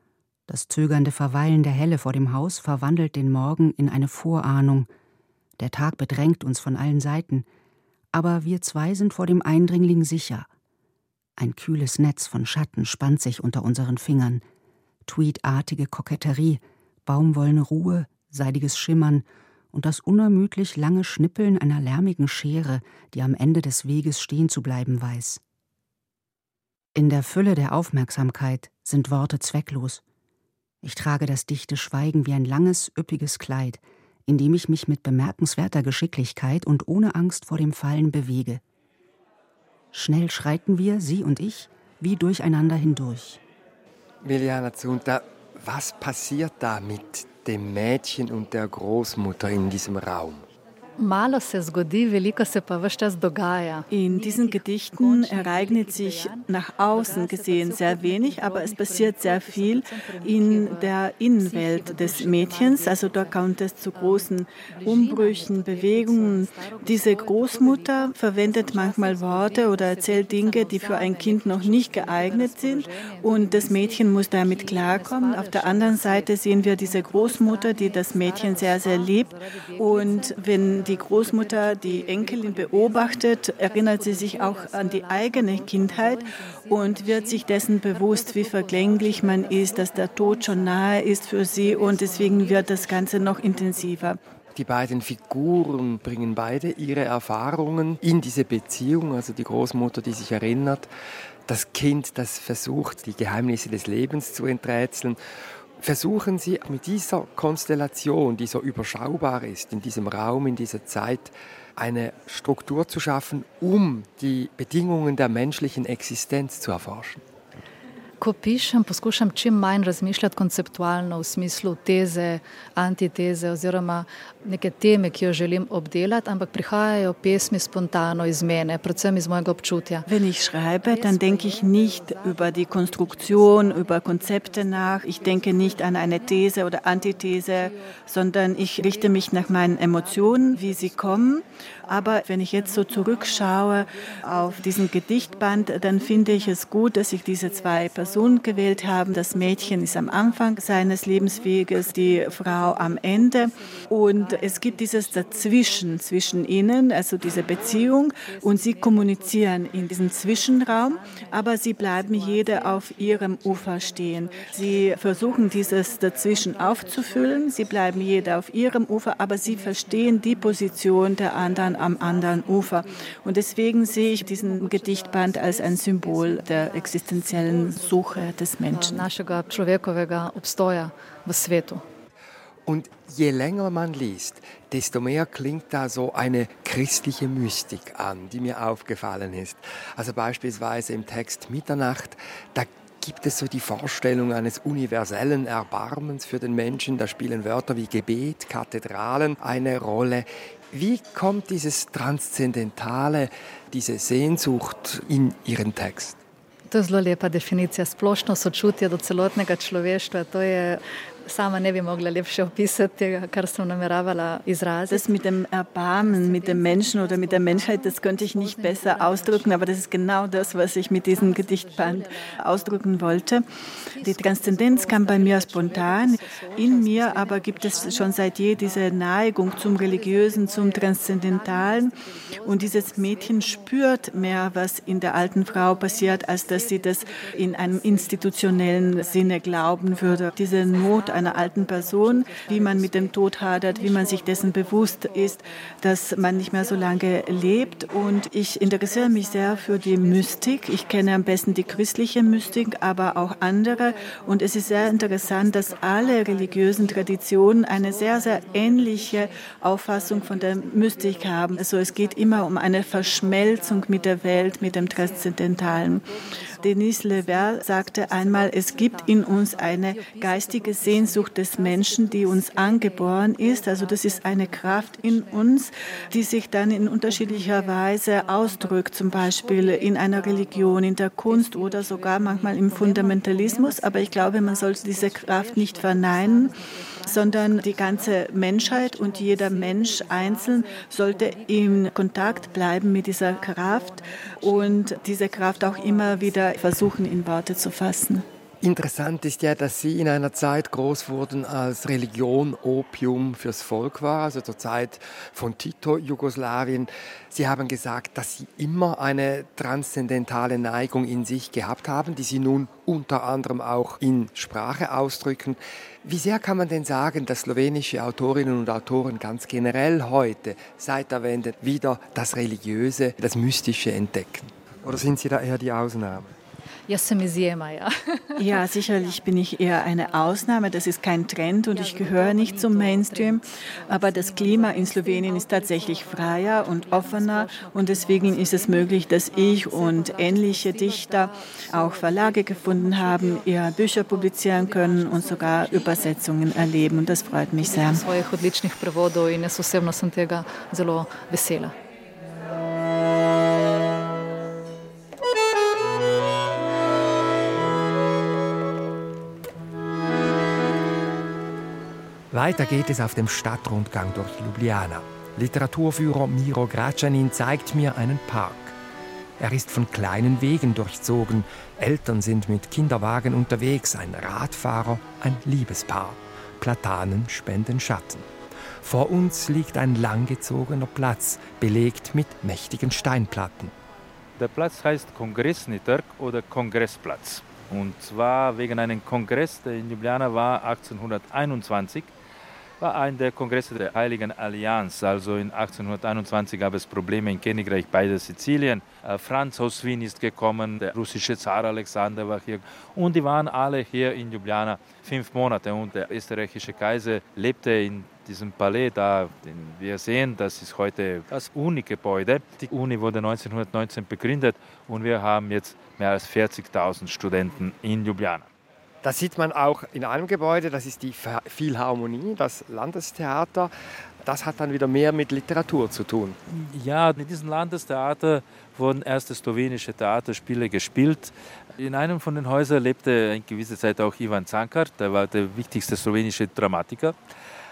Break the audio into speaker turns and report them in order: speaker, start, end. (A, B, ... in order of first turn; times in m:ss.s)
0:00.5-0:04.9 A
0:05.6-0:07.4 A
0:08.1-0:10.5 A
0:11.4-0:14.4 A
0:15.0-0:25.4 A
0:26.9-0:30.0 A
0:30.8-0:38.6 A
0:39.9-0:43.4 A
0:44.2-0:50.4 B
0:51.0-0:53.9 C
0:53.9-1:34.2 D
0:55.2-0:55.8 C
1:34.5-1:40.9 B
1:41.5-1:45.2 B
1:45.8-1:57.2 B
1:58.2-2:10.1 C
2:10.1-2:59.0 D
2:58.7-3:01.8 C
3:02.7-3:26.2 B
3:26.7-3:35.1 C
3:34.9-3:43.4 D
3:36.0-3:39.7 C
3:41.3-3:42.3 C
3:44.0-4:26.1 D
3:44.2-3:48.1 C
4:26.6-4:58.2 D
4:58.6-5:26.3 B
5:26.9-5:28.6 C
5:28.4-5:48.0 D
5:32.0-5:33.3 C
5:33.9-5:35.8 C
5:37.0-5:38.7 C
5:45.1-5:46.0 C
5:47.5-5:51.7 C
6:02.3-6:08.8 B
6:09.4-6:18.3 B
6:18.8-6:23.7 B
6:24.4-6:32.1 E
6:32.8-6:58.5 E
6:59.0-7:03.7 B
7:04.2-7:06.4 B
7:06.5-7:17.2 E